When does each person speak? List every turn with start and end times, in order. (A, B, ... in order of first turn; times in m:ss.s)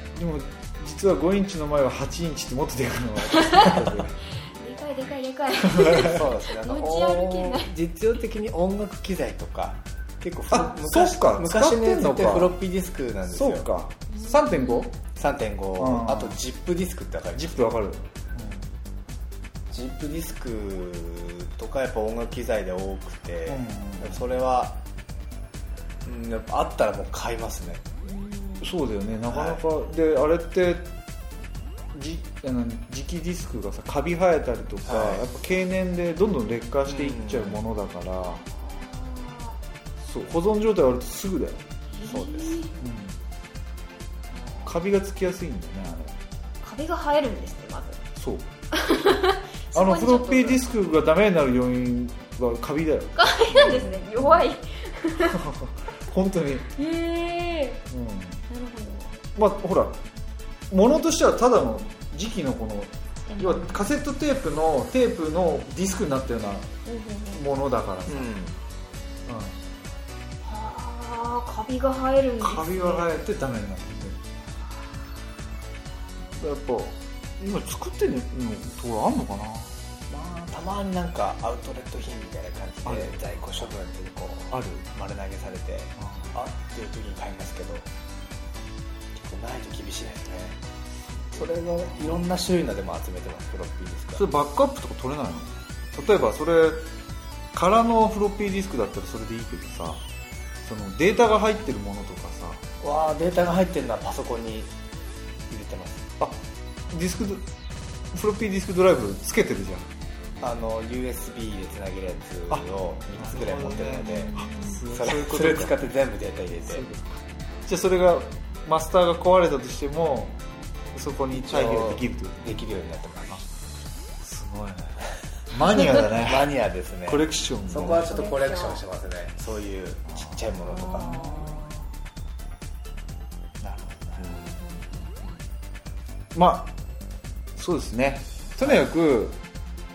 0:00.2-0:04.1 A
0:03.3-0:07.7 B
0:05.7-0:06.1 A
0:05.9-0:13.7 C
0:10.5-0:12.6 A
0:13.3-0:14.9 A
0:14.1-0:14.9 B
0:15.1-0:17.6 C
0:15.8-0:16.4 A
0:17.3-0:18.6 A
0:19.7-0:24.8 C
0:23.5-0:24.4 A
0:26.0-0:27.8 C
0:28.0-0:28.7 B
0:28.6-0:30.9 A
0:29.3-0:29.6 C
0:31.9-0:38.4 A
0:34.8-0:35.2 C
0:36.8-0:37.6 C
0:38.4-0:39.6 B
0:40.0-0:41.6 A
0:41.9-0:42.7 B
0:42.1-0:42.6 C
0:42.8-0:43.2 A
0:44.4-0:44.7 B
0:44.6-0:46.2 A
0:46.6-0:48.0 B
0:48.2-0:48.5 A
0:48.7-0:50.6 B
0:49.7-0:54.4 A
0:53.2-0:55.4 B
0:55.2-0:56.7 A
0:56.7-0:57.8 B
0:57.9-0:58.4 A
0:58.5-0:59.1 B
0:59.3-1:00.0 A
1:00.7-1:06.7 A
1:03.3-1:03.8 B
1:06.8-1:07.4 B
1:07.3-1:08.3 A
1:08.1-1:08.6 C
1:09.2-1:09.6 A
1:10.4-1:13.2 B
1:12.4-1:14.2 A
1:16.4-1:19.7 A
1:20.1-1:27.9 C
1:22.8-1:23.2 A
1:24.5-1:24.9 A
1:26.0-1:26.3 A
1:29.2-1:30.6 C
1:31.3-1:34.2 C
1:34.2-1:36.9 A
1:37.5-1:40.0 A
1:40.6-1:42.6 A
1:42.8-1:44.7 C
1:45.5-1:46.1 C
1:46.9-1:47.5 A
1:48.1-1:49.9 A
1:50.4-1:54.3 C
1:52.5-1:55.9 A
1:54.3-1:54.8 B
1:54.9-1:56.8 C
1:56.7-1:57.1 A
1:57.6-2:00.4 A
2:00.9-2:02.6 A
2:01.3-2:03.4 C
2:04.2-2:06.5 A
2:05.9-2:11.5 C
2:07.0-2:08.1 A
2:08.0-2:08.8 B
2:10.2-2:11.8 A
2:10.7-2:11.6 B
2:13.6-2:14.5 A
2:14.8-2:15.3 B
2:16.3-2:16.7 A
2:17.6-2:19.4 A